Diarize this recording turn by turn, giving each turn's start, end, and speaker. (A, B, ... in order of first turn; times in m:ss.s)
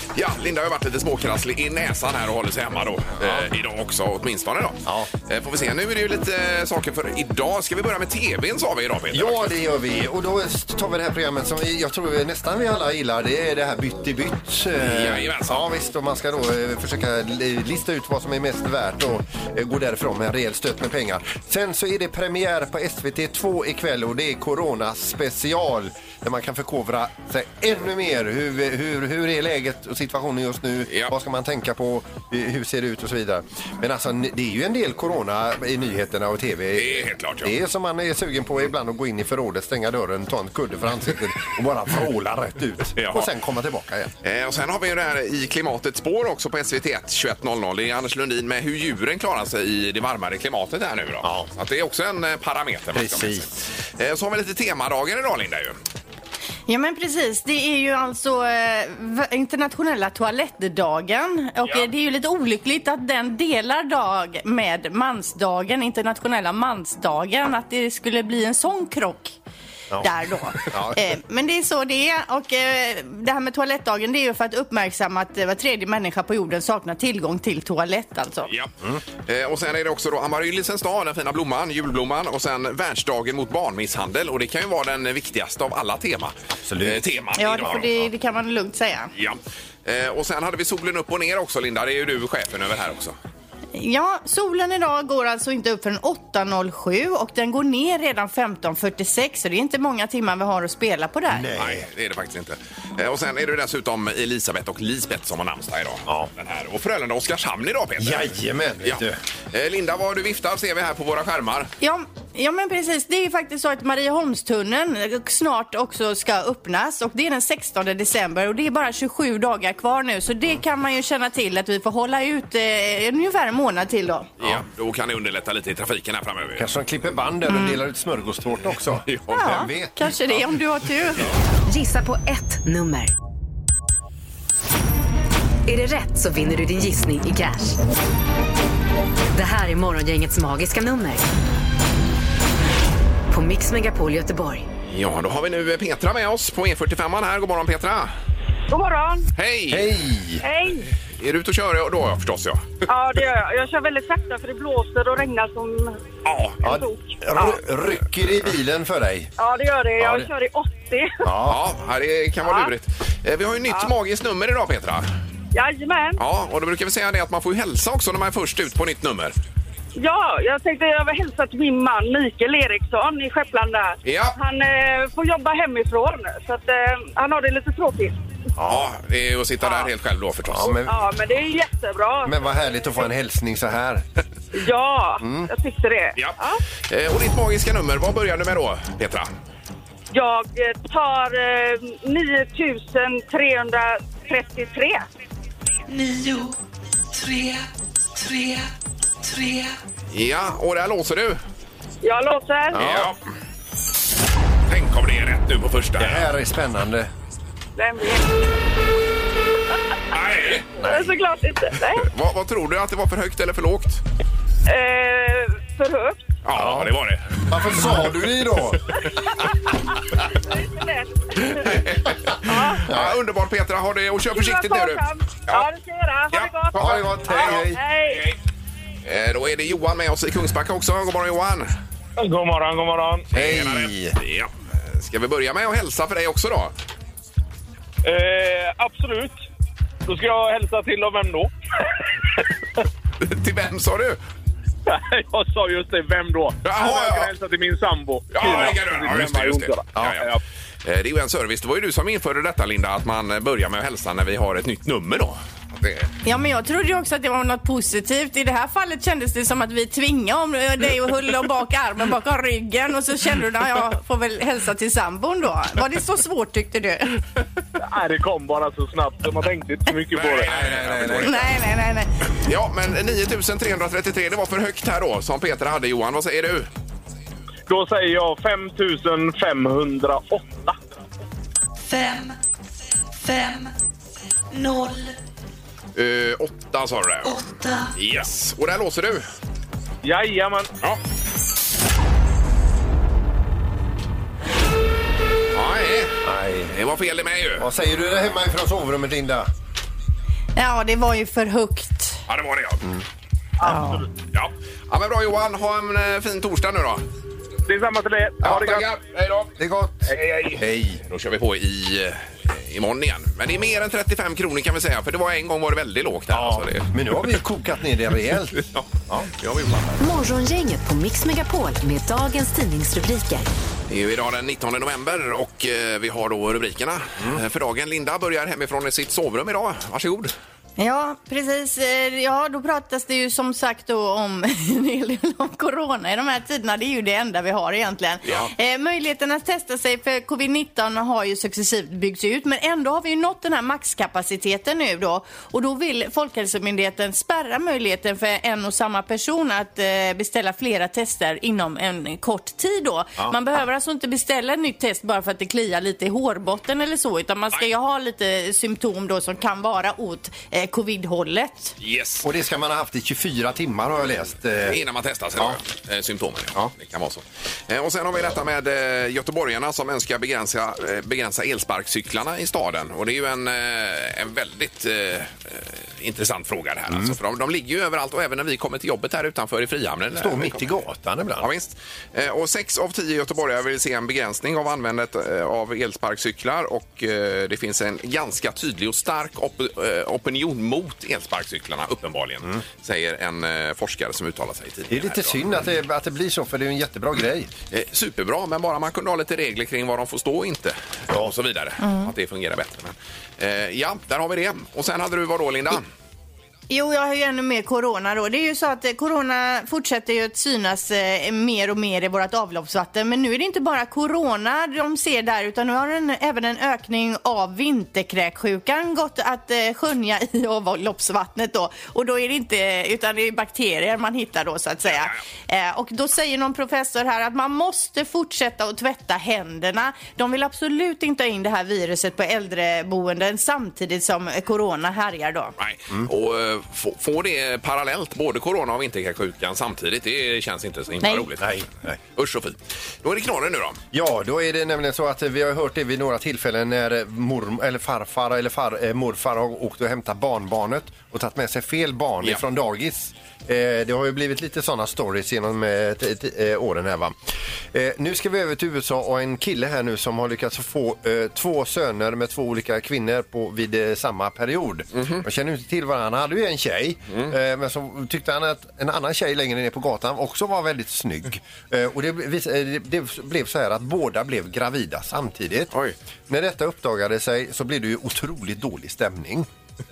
0:00.2-0:09.5 A
0:03.2-0:03.5 B
0:09.1-0:44.1 B
0:14.8-0:15.6 A
0:30.9-0:31.1 A
0:36.8-0:37.5 A
0:43.0-0:43.3 A
0:44.2-0:53.4 A
0:51.2-0:51.5 B
0:52.9-0:53.6 B
0:54.0-0:55.8 A
0:56.7-1:09.4 C
1:10.0-1:18.5 C
1:10.6-1:11.0 B
1:18.5-1:18.7 A
1:19.3-1:27.9 A
1:26.7-1:27.0 B
1:27.4-1:29.1 C
1:29.2-1:33.2 A
1:33.7-1:41.5 C
1:41.3-1:41.8 B
1:41.6-1:48.3 A
1:48.0-1:49.2 B
1:48.8-1:51.7 A
1:51.8-2:04.3 C
2:04.4-2:06.7 A
2:06.6-2:10.4 B
2:09.1-2:09.5 A
2:09.3-2:11.3 C
2:11.7-2:13.1 D
2:15.7-2:17.8 D
2:19.3-2:21.3 D
2:23.3-2:24.7 D
2:24.9-2:28.1 A
2:28.7-2:29.3 E
2:29.3-2:30.0 A
2:29.7-2:30.4 B
2:30.4-2:30.8 E
2:31.2-2:32.8 A
2:32.9-2:36.0 E
2:36.2-2:36.6 A
2:36.6-2:39.3 B
2:36.6-2:37.5 E
2:39.4-2:41.3 E
2:40.0-2:40.3 B
2:41.2-2:41.6 B
2:41.4-2:45.1 A
2:42.4-2:42.7 E
2:45.5-2:46.2 E
2:46.2-2:49.3 A
2:50.0-2:58.2 E
2:54.0-2:54.4 A
2:58.6-2:58.9 B
2:58.6-3:00.7 A
3:00.5-3:01.0 B
3:00.8-3:02.4 E
3:02.2-3:04.0 B
3:04.5-3:06.6 E
3:05.2-3:05.5 B
3:06.9-3:09.3 A
3:10.1-3:15.0 E
3:15.9-3:16.6 F
3:17.1-3:18.7 F
3:19.2-3:19.8 F
3:20.1-3:21.4 A
3:22.0-3:22.8 E
3:22.7-3:23.1 B
3:22.7-3:23.2 A
3:24.7-3:26.3 A
3:26.0-3:27.1 B
3:27.8-3:28.2 E
3:30.1-3:30.8 A
3:30.8-3:31.1 B
3:30.8-3:32.1 E
3:32.0-3:34.0 A
3:34.7-3:36.3 E
3:36.4-3:37.4 A
3:36.5-3:36.9 B
3:37.5-3:38.9 B
3:40.3-3:41.8 E
3:41.5-3:45.7 A
3:42.4-3:42.9 E
3:42.8-3:43.2 B
3:44.3-3:48.3 E
3:46.3-3:48.4 A
3:46.7-3:47.8 B
3:49.0-3:51.7 A
3:52.2-3:53.2 G
3:53.3-3:54.2 B
3:53.3-3:56.7 A
3:58.0-3:59.3 G
4:00.1-4:01.5 G
4:03.2-4:04.2 A
4:04.8-4:10.3 G
4:06.6-4:07.3 A
4:08.3-4:10.3 A
4:10.0-4:10.2 B
4:10.8-4:16.1 A
4:16.2-4:27.2 C
4:27.8-4:31.1 G
4:30.1-4:31.5 A
4:30.6-4:31.3 B
4:31.2-4:32.1 C
4:32.4-4:36.7 A
4:37.7-4:40.8 G
4:41.8-4:42.4 F
4:43.2-4:43.7 F
4:44.5-4:45.1 F
4:46.0-4:47.4 A
4:47.2-4:47.9 F
4:48.0-4:49.3 A
4:50.0-4:50.7 G
4:55.5-4:57.7 A
4:56.2-4:56.8 B
4:57.6-4:59.5 B
5:00.6-5:02.2 C
5:02.3-5:02.8 A
5:03.6-5:04.1 C
5:04.3-5:07.0 A
5:07.7-5:08.9 G
5:08.4-5:09.5 A
5:09.6-5:11.0 B
5:10.2-5:16.9 A
5:16.3-5:19.3 B
5:18.6-5:20.0 A
5:20.0-5:23.5 D
5:23.9-5:30.3 A
5:30.8-6:01.8 C
6:01.8-6:02.2 A
6:02.2-6:04.8 B
6:04.6-6:20.7 A
6:16.9-6:17.2 B
6:20.1-6:21.5 B
6:21.4-6:35.4 A
6:34.9-6:37.5 B
6:37.7-6:45.8 A
6:46.7-7:15.5 C
7:15.6-7:21.6 A
7:21.4-7:22.0 B
7:22.1-7:23.8 A
7:23.9-7:37.2 B
7:37.7-7:55.7 B
7:45.0-7:45.2 A
7:56.3-7:59.5 B